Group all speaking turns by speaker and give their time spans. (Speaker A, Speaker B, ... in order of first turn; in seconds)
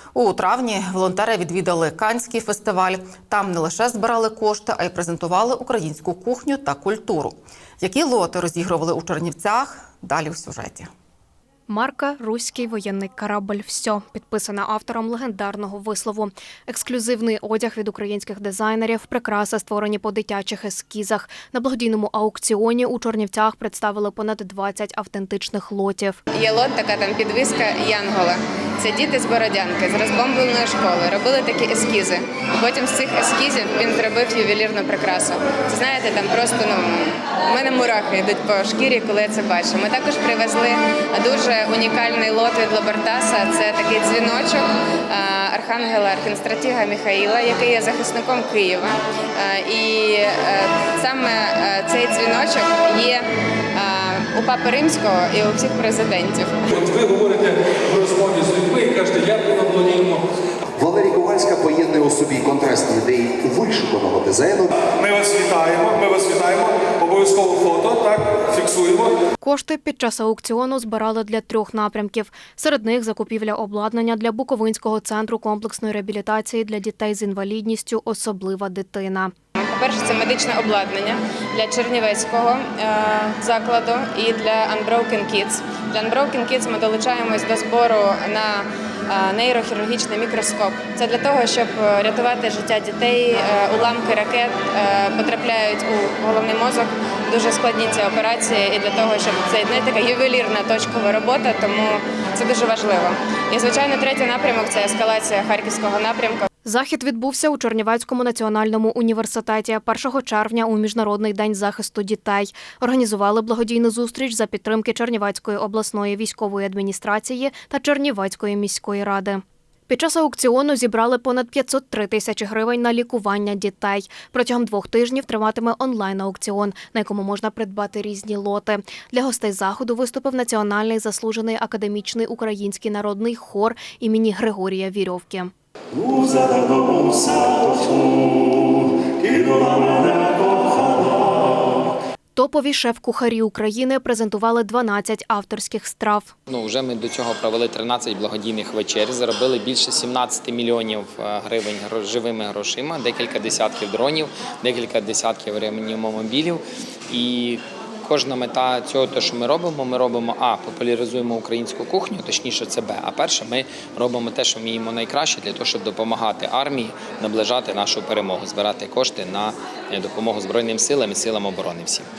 Speaker A: 0.1-10.9
Speaker B: 11.7-26.2, 69.4-79.3, 106.6-135.5, 142.3-146.3
Speaker C: 26.3-56.7, 79.6-106.5
Speaker D: 56.7-60.2, 64.9-69.2
Speaker E: 60.8-64.7
Speaker F: 136.1-137.7, 139.3-140.9
Speaker G: 146.5-172.1